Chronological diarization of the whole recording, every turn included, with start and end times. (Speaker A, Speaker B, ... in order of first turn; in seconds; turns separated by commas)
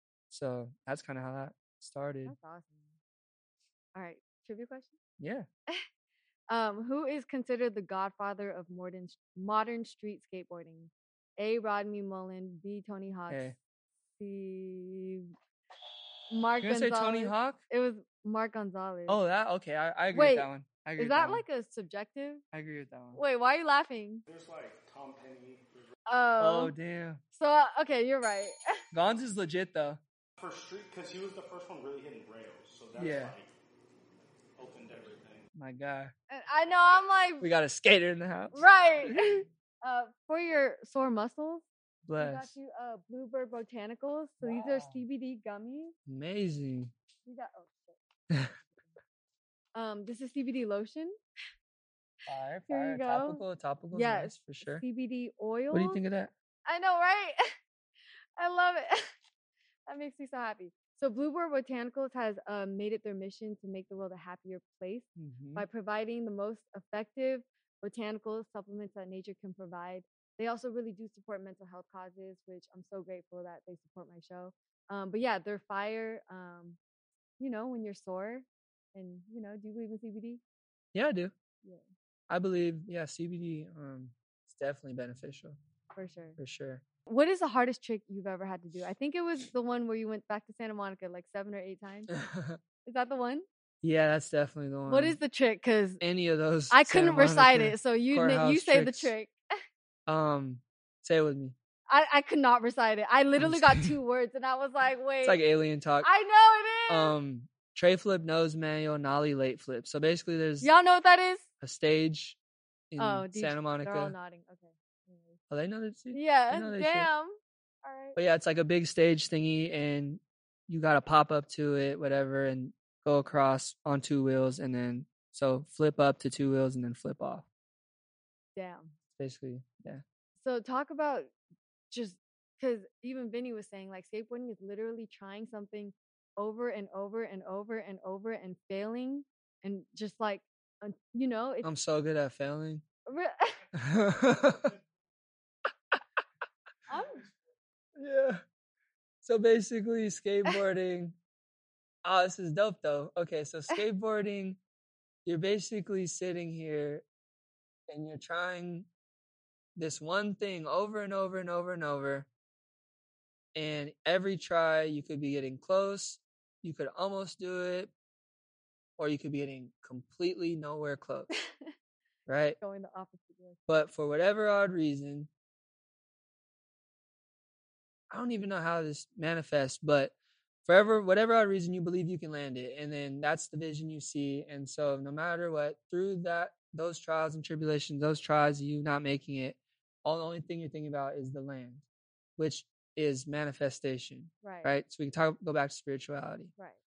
Speaker A: 0.3-2.4, Speaker B: 2.3-3.0, Speaker B: 4.0-5.0, Speaker A: 5.2-5.5, Speaker B: 6.5-13.5, Speaker A: 13.3-13.6, Speaker B: 14.2-15.3, Speaker B: 16.3-19.2, Speaker A: 16.6-17.6, Speaker A: 19.1-21.4, Speaker B: 20.1-22.4, Speaker A: 22.5-23.2, Speaker B: 23.1-24.2, Speaker C: 24.3-25.9, Speaker B: 26.1-26.7, Speaker A: 26.4-27.2, Speaker B: 27.3-28.8, Speaker A: 28.9-30.0, Speaker C: 30.4-33.5, Speaker A: 33.0-33.4, Speaker C: 34.6-35.5, Speaker A: 35.5-36.1, Speaker B: 36.3-37.5, Speaker A: 37.4-39.4, Speaker B: 38.5-41.7, Speaker A: 42.0-42.6, Speaker B: 42.2-46.0, Speaker A: 44.4-45.0, Speaker A: 46.1-46.9, Speaker B: 47.3-48.0, Speaker B: 49.8-51.2, Speaker A: 52.3-54.8, Speaker B: 52.7-56.0, Speaker A: 55.7-56.3, Speaker B: 56.7-57.5, Speaker B: 58.4-59.1, Speaker B: 59.9-76.8, Speaker A: 65.2-65.7, Speaker B: 77.4-80.4, Speaker A: 80.9-81.3, Speaker A: 82.3-85.6, Speaker B: 86.0-86.4, Speaker A: 86.4-86.8, Speaker B: 87.1-92.1, Speaker A: 92.1-92.6, Speaker B: 92.8-93.5, Speaker A: 93.8-95.2, Speaker B: 94.9-96.0, Speaker A: 96.0-99.1, Speaker B: 96.7-99.3, Speaker A: 100.1-101.6, Speaker B: 101.9-105.4, Speaker A: 103.4-103.9, Speaker A: 105.2-106.1, Speaker B: 106.0-107.2, Speaker A: 106.9-110.7, Speaker B: 110.6-111.5, Speaker A: 111.6-112.4, Speaker A: 112.9-114.2, Speaker B: 113.0-115.4, Speaker A: 115.5-117.1, Speaker B: 116.1-118.2, Speaker A: 118.2-127.5, Speaker B: 128.6-128.9, Speaker A: 129.2-130.0, Speaker B: 130.4-131.3, Speaker B: 131.9-141.7, Speaker A: 141.6-142.8, Speaker B: 143.1-143.6, Speaker A: 143.7-144.8, Speaker B: 146.9-147.3, Speaker A: 148.0-148.4, Speaker A: 149.2-151.2, Speaker A: 152.0-154.6, Speaker A: 155.3-157.0, Speaker A: 157.9-158.9, Speaker A: 159.8-162.3, Speaker A: 163.6-167.9, Speaker A: 169.0-171.3, Speaker B: 171.4-171.7, Speaker A: 172.3-172.6, Speaker B: 172.6-173.6, Speaker A: 173.7-175.3, Speaker A: 178.1-180.1, Speaker A: 180.7-191.8, Speaker A: 192.4-196.5, Speaker B: 194.4-194.7